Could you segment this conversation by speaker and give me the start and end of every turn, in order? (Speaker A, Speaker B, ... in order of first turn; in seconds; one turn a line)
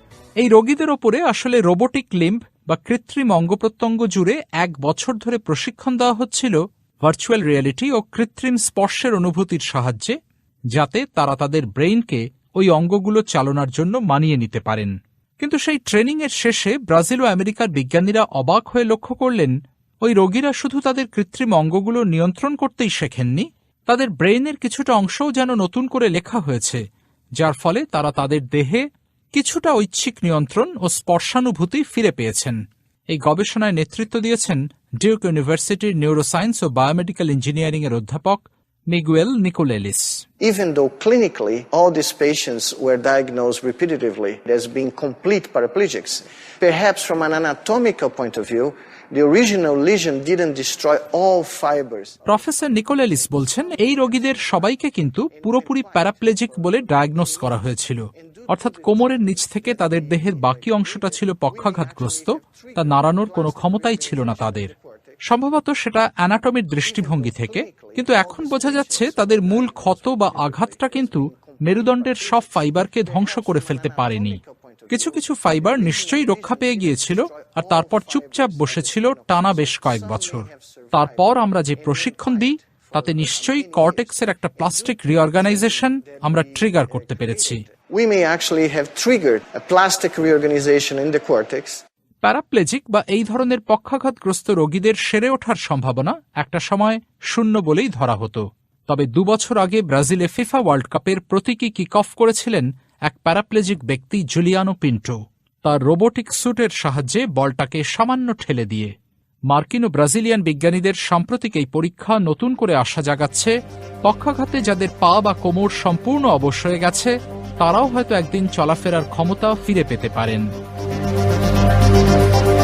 Speaker A: 0.4-10.1
Speaker A: 10.8-19.5
Speaker A: 20.0-26.8
Speaker A: 27.4-28.8
Speaker A: 29.4-32.6
Speaker A: 33.1-40.2
Speaker B: 40.4-52.2
Speaker A: 52.3-64.7
Speaker B: 53.1-54.6
Speaker B: 55.3-65.2
Speaker A: 65.3-87.6
Speaker B: 66.8-91.8
Speaker A: 92.2-108.9
Speaker A: 109.5-113.5
Speaker A: 114.0-120.5